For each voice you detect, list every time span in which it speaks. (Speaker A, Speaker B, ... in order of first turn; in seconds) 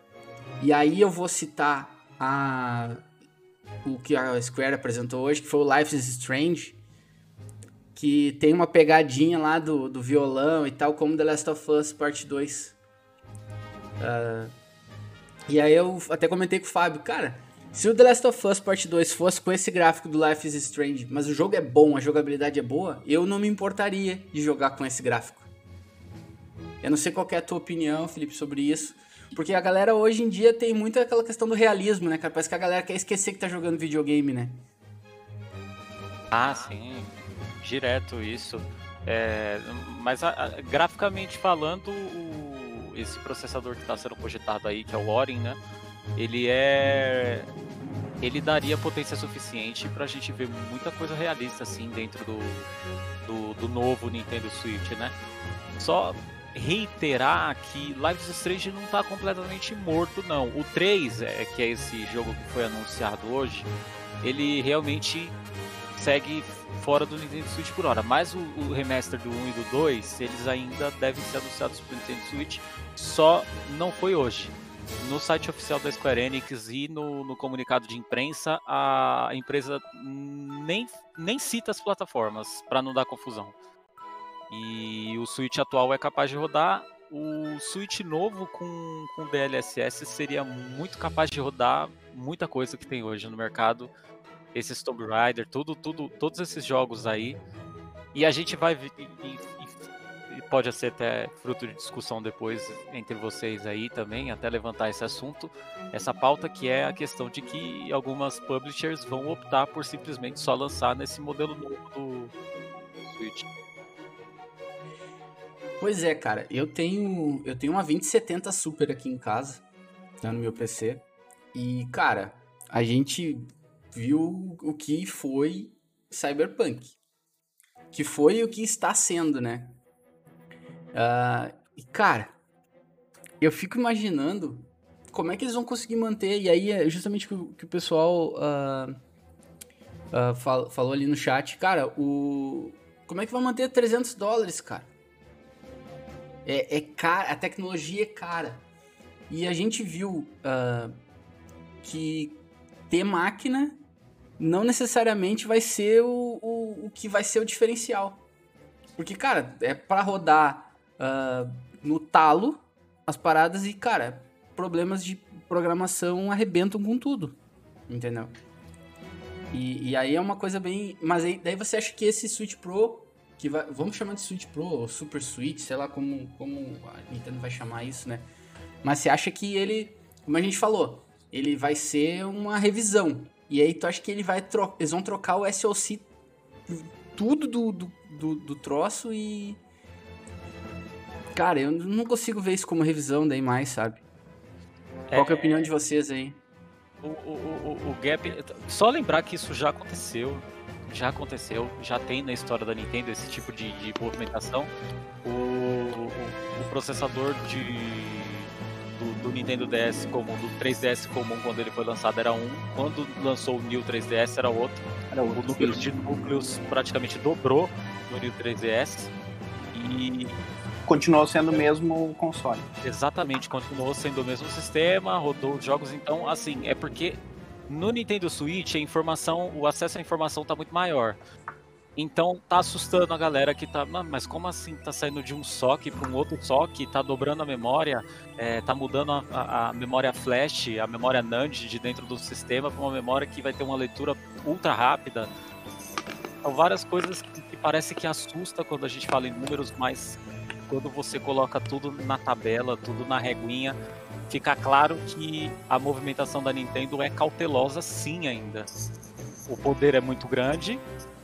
Speaker A: 0.6-3.0, 3.8-6.8, 7.9-12.8, 14.0-14.5, 15.5-25.5, 26.8-34.6, 115.8-119.6, 120.2-121.0, 121.5-127.0, 127.9-129.8, 130.9-132.3, 133.4-138.9, 140.1-144.9, 146.4-148.6, 149.3-150.9, 151.8-153.8, 154.4-158.2, 159.0-167.4, 167.9-168.3, 169.5-178.3, 178.8-186.1, 186.7-189.6, 191.3-194.0, 195.1-196.4
Speaker B: 36.3-45.6, 46.1-47.5, 48.2-52.7, 53.2-55.1, 55.8-63.7, 64.2-65.3, 66.0-83.5, 84.5-93.9, 94.5-97.4, 98.1-112.3, 113.0-113.5, 195.1-195.7, 197.0-204.7, 205.2-219.1, 219.7-220.4, 222.8-231.2, 231.9-245.3, 246.4-253.8, 254.3-258.7, 259.5-260.8
Speaker C: 215.1-215.8, 220.9-222.7